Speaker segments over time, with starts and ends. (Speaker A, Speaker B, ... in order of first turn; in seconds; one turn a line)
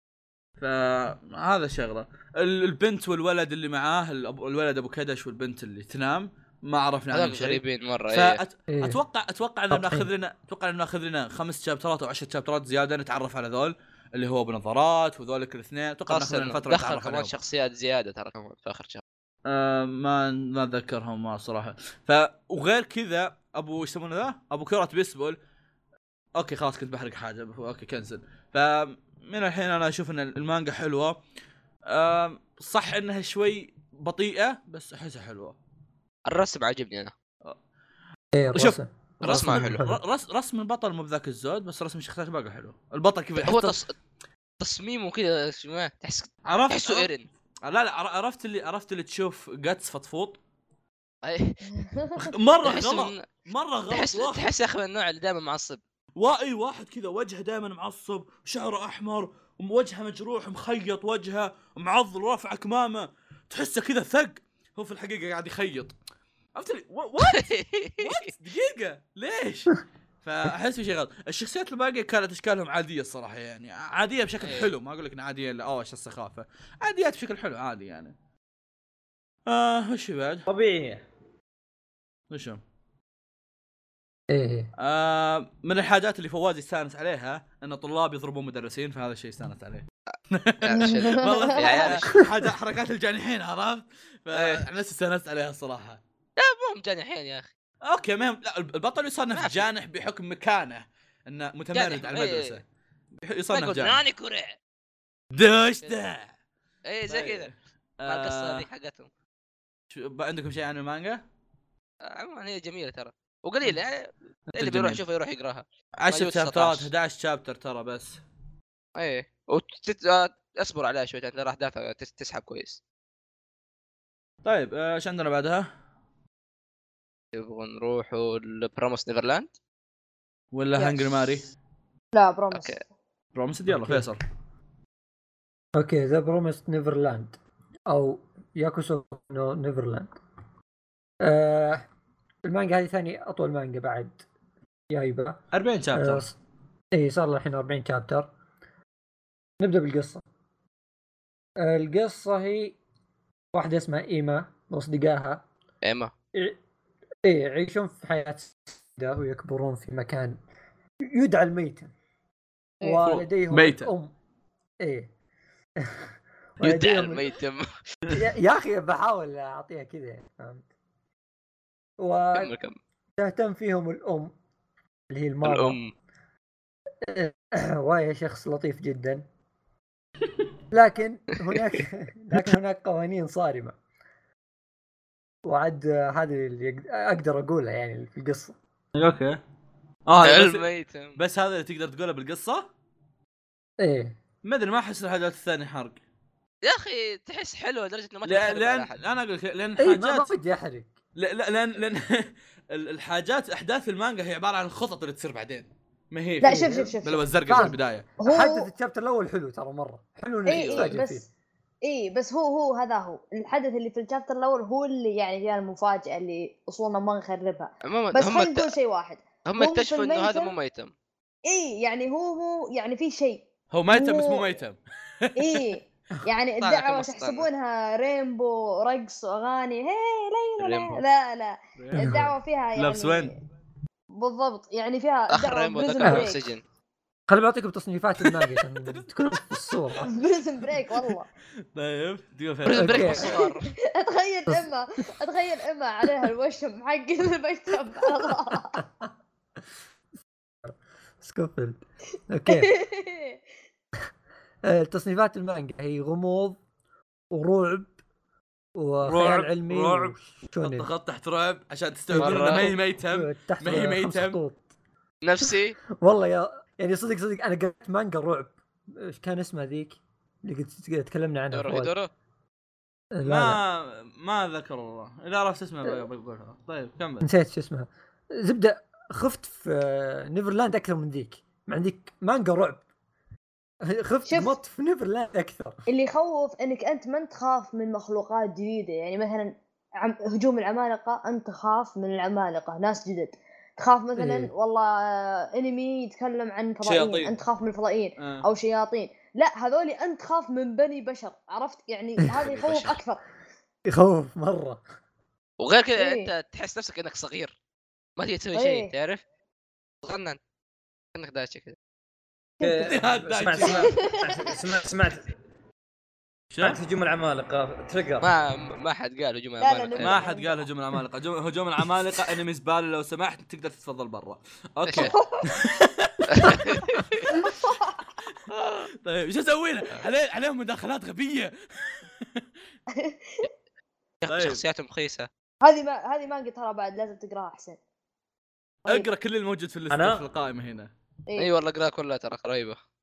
Speaker A: 0.6-17.3
Speaker B: 7.1-8.4
Speaker C: 8.7-9.0
Speaker C: 9.7-10.1
Speaker B: 16.1-19.0
Speaker A: 19.5-25.4
Speaker A: 26.4-31.2
Speaker A: 31.9-35.6
Speaker B: 36.3-37.1
Speaker C: 38.3-40.0
Speaker A: 38.5-43.8
Speaker B: 39.2-39.8
Speaker B: 43.4-43.9
Speaker B: 44.6-47.3
Speaker A: 46.5-50.4
Speaker B: 51.2-51.6
Speaker D: 51.8-52.2
Speaker A: 52.2-54.5
Speaker B: 52.6-53.3
Speaker B: 53.9-55.8
Speaker A: 56.2-66.0
Speaker A: 66.6-67.5
Speaker B: 67.2-68.3
Speaker A: 68.0-78.1
Speaker B: 74.4-74.7
Speaker A: 79.5-80.5
Speaker E: 80.5-81.0
Speaker A: 82.3-82.6
Speaker C: 84.3-84.7
Speaker A: 84.8-96.0
Speaker B: 90.6-92.2
Speaker D: 90.9-91.9
Speaker B: 94.3-94.7
Speaker B: 96.4-97.5
Speaker A: 97.8-102.6
Speaker B: 99.3-99.7
Speaker B: 101.7-102.6
Speaker A: 103.2-104.0
Speaker B: 103.5-104.6
Speaker A: 105.3-106.3
Speaker B: 106.9-107.5
Speaker A: 107.1-108.7
Speaker B: 108.1-109.1
Speaker A: 109.9-111.2
Speaker B: 112.1-116.9
Speaker A: 114.6-115.0
Speaker A: 116.0-118.2
Speaker B: 119.0-122.8
Speaker A: 124.4-125.7
Speaker B: 127.3-129.5
Speaker A: 130.5-131.5
Speaker D: 130.8-131.0
Speaker D: 132.1-132.8
Speaker B: 132.5-132.8
Speaker A: 133.3-134.2
Speaker C: 133.7-134.1
Speaker C: 135.8-140.1
Speaker C: 141.2-141.9
Speaker C: 142.4-144.2
Speaker C: 144.9-145.4
Speaker A: 145.5-146.2
Speaker C: 145.9-146.4
Speaker C: 146.9-148.3
Speaker C: 149.6-150.2
Speaker C: 151.6-152.8
Speaker C: 153.5-155.4
Speaker B: 155.8-156.1
Speaker C: 157.2-160.4
Speaker C: 161.1-161.9
Speaker C: 162.8-164.1
Speaker A: 163.0-163.9
Speaker C: 164.8-165.1
Speaker C: 165.8-166.1
Speaker C: 166.6-167.3
Speaker B: 166.6-167.7
Speaker C: 168.2-170.7
Speaker C: 172.0-172.5
Speaker B: 172.3-172.8
Speaker C: 173.2-174.3
Speaker C: 175.1-175.8
Speaker B: 175.4-175.9
Speaker C: 177.1-179.2
Speaker C: 180.7-183.8
Speaker C: 185.4-188.6
Speaker A: 188.9-189.4
Speaker A: 190.1-192.7
Speaker B: 190.2-191.2
Speaker C: 193.8-194.2
Speaker A: 194.4-196.0
Speaker B: 196.6-199.0
Speaker A: 198.3-200.3
Speaker C: 199.8-200.9
Speaker A: 201.2-208.1
Speaker D: 206.4-207.2
Speaker C: 206.4-206.9
Speaker C: 207.5-211.2
Speaker D: 208.2-208.7
Speaker D: 210.5-211.3
Speaker B: 210.5-211.0
Speaker D: 211.8-220.5
Speaker B: 217.8-218.7
Speaker B: 219.5-220.9
Speaker D: 221.5-224.5
Speaker A: 223.7-225.6
Speaker D: 225.4-233.3
Speaker B: 226.6-227.5
Speaker B: 230.6-231.0
Speaker A: 231.8-233.3
Speaker C: 231.9-232.3
Speaker D: 234.2-236.5
Speaker B: 235.3-236.6
Speaker C: 237.3-240.1
Speaker A: 238.3-239.0
Speaker D: 240.0-241.3
Speaker A: 241.8-243.2
Speaker B: 242.7-243.7
Speaker C: 242.7-243.3
Speaker D: 243.2-248.8
Speaker C: 248.3-249.1
Speaker C: 250.7-252.7
Speaker D: 252.5-253.4
Speaker C: 254.6-256.6
Speaker C: 257.3-257.9
Speaker C: 258.8-260.9
Speaker A: 259.1-264.4
Speaker C: 262.1-264.6
Speaker B: 262.2-262.6
Speaker B: 265.2-265.8
Speaker C: 266.0-271.9
Speaker B: 271.5-272.1
Speaker C: 273.1-273.6
Speaker A: 273.2-277.3
Speaker C: 277.2-282.8
Speaker C: 283.8-285.8
Speaker D: 284.3-284.6
Speaker D: 285.9-303.2
Speaker C: 294.2-294.5
Speaker A: 296.8-297.4
Speaker A: 298.2-298.5
Speaker B: 302.5-303.0
Speaker C: 303.9-304.8
Speaker B: 305.6-307.5
Speaker D: 306.0-306.3
Speaker B: 308.2-309.2
Speaker D: 308.6-308.9
Speaker B: 310.0-310.4
Speaker B: 311.1-311.8
Speaker D: 312.6-312.9
Speaker E: 312.6-315.3
Speaker A: 312.8-314.1
Speaker D: 313.6-314.5
Speaker A: 316.5-316.8
Speaker E: 316.6-318.3
Speaker B: 318.2-320.2
Speaker D: 319.6-320.7
Speaker A: 320.0-327.3
Speaker B: 324.9-325.1
Speaker D: 325.0-325.6
Speaker B: 326.3-327.3
Speaker D: 327.4-328.1
Speaker A: 328.5-332.4
Speaker D: 333.0-333.5
Speaker B: 334.2-335.3
Speaker A: 334.3-334.6
Speaker D: 335.6-337.8
Speaker A: 338.9-340.9
Speaker E: 339.9-340.2
Speaker B: 341.4-342.8